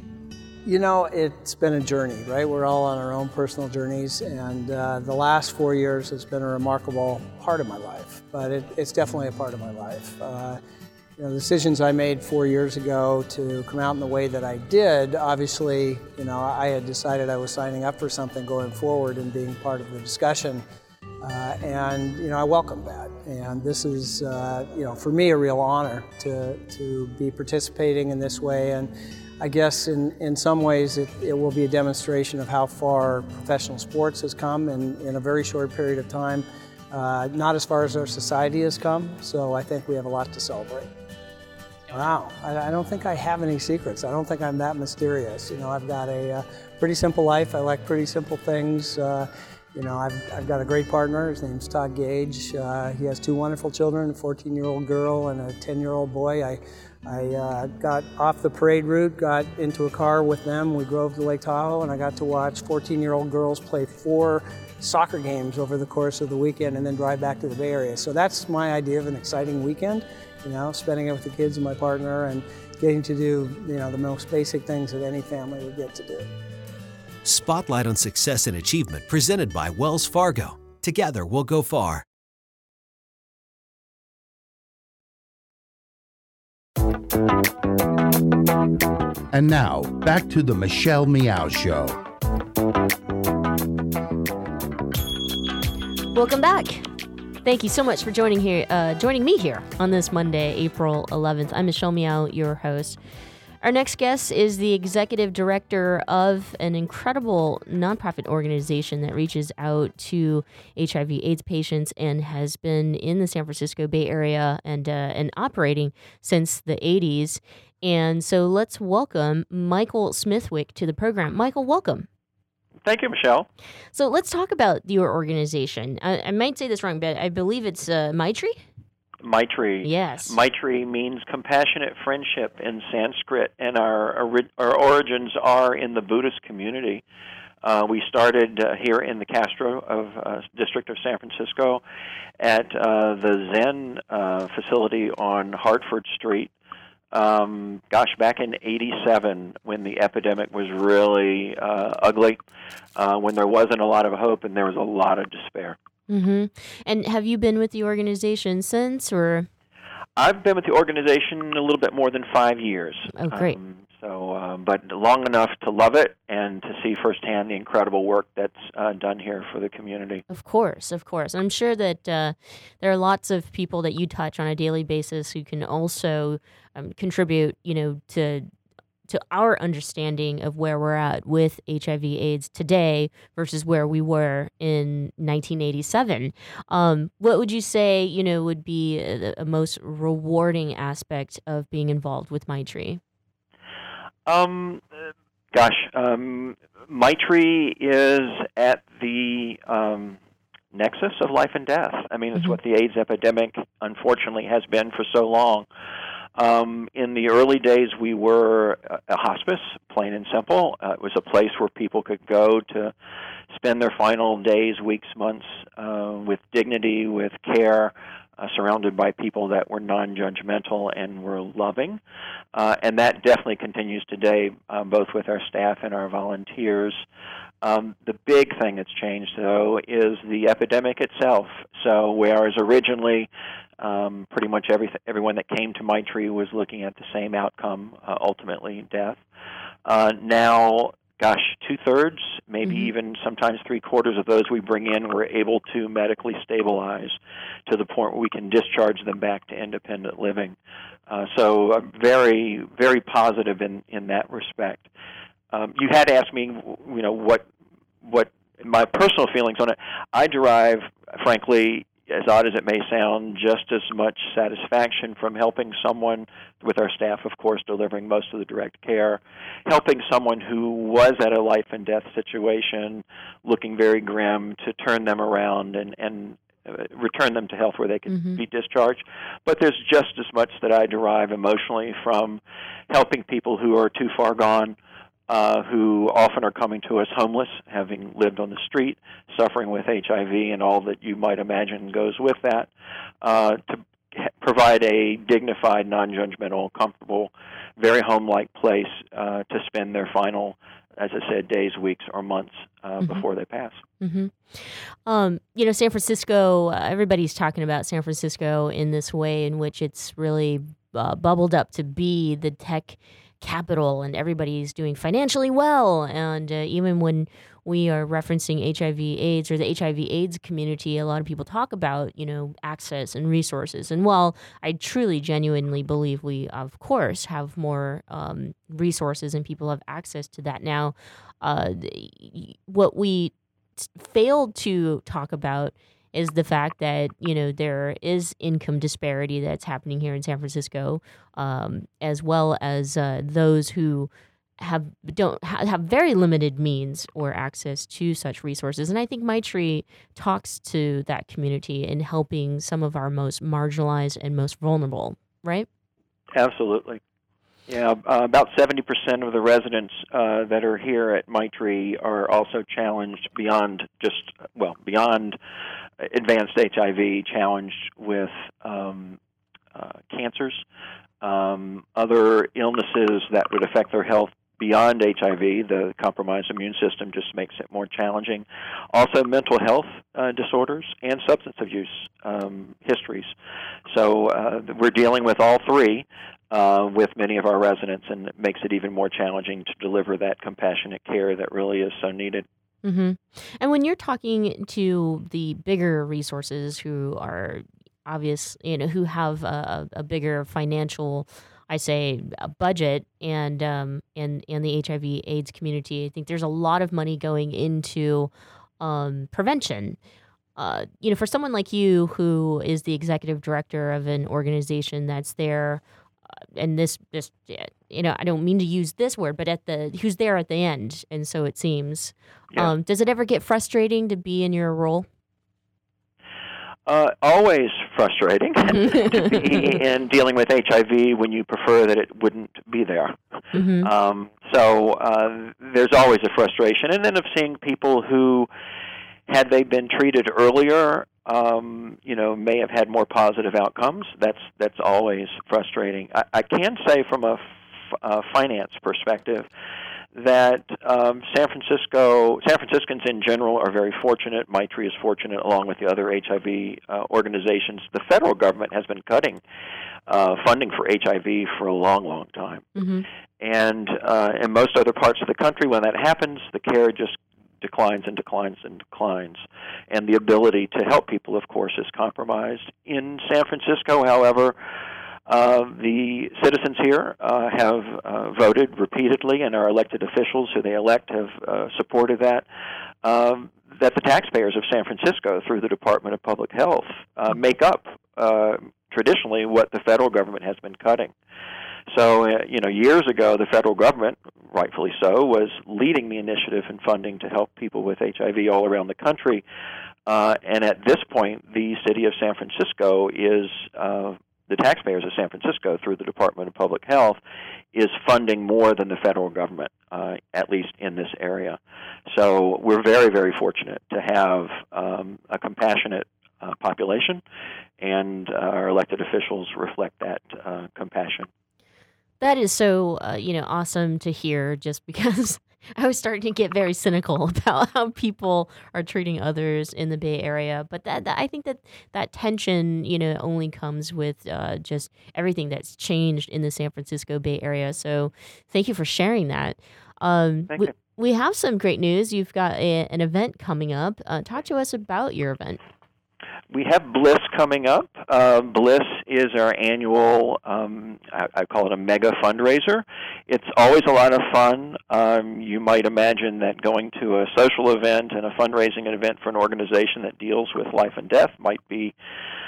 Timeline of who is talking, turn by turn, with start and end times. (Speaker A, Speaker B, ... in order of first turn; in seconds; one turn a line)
Speaker A: 0.6-10.6
Speaker A: 11.2-20.6
Speaker A: 21.2-40.9
Speaker A: 41.9-76.3
Speaker B: 77.2-82.0
Speaker C: 89.3-92.0
Speaker D: 96.1-96.9
Speaker D: 97.4-103.0
Speaker D: 103.6-122.1
Speaker E: 122.8-123.5
Speaker D: 123.9-128.6
Speaker E: 129.2-137.0
Speaker D: 129.8-130.4
Speaker E: 137.6-141.8
Speaker E: 142.4-146.5
Speaker E: 147.1-152.4
Speaker E: 152.9-155.8
Speaker D: 156.1-159.5
Speaker E: 160.2-170.2
Speaker D: 163.1-163.6
Speaker D: 170.3-178.5
Speaker D: 179.1-193.0
Speaker E: 194.3-194.9
Speaker E: 195.5-200.2
Speaker E: 200.7-205.7
Speaker E: 206.4-212.9
Speaker E: 213.5-222.0
Speaker E: 222.6-227.0
Speaker E: 227.6-233.3
Speaker E: 233.8-239.2
Speaker E: 239.8-250.6
Speaker D: 242.6-242.9
Speaker E: 251.1-254.9
Speaker E: 255.5-257.5
Speaker E: 258.0-284.8
Speaker D: 278.1-278.4
Speaker E: 285.3-292.7
Speaker E: 293.2-303.8
Speaker D: 303.0-303.2
Speaker D: 304.0-355.7
Speaker E: 356.3-357.0
Speaker E: 357.7-365.4
Speaker E: 366.0-369.2
Speaker E: 369.7-370.6
Speaker E: 371.2-383.3
Speaker E: 383.9-392.4
Speaker D: 392.8-410.0
Speaker D: 410.6-415.8
Speaker D: 416.6-425.1
Speaker E: 426.9-438.5
Speaker D: 433.5-433.9
Speaker E: 439.3-447.4
Speaker E: 448.0-449.5
Speaker E: 450.1-459.4
Speaker E: 460.1-462.7
Speaker D: 462.8-463.1
Speaker E: 463.4-474.6
Speaker E: 475.3-482.4
Speaker E: 483.0-491.1
Speaker E: 491.9-499.4
Speaker E: 500.1-507.2
Speaker E: 507.7-517.2
Speaker E: 517.8-521.3
Speaker D: 522.2-545.6
Speaker E: 540.5-540.8
Speaker E: 546.5-562.0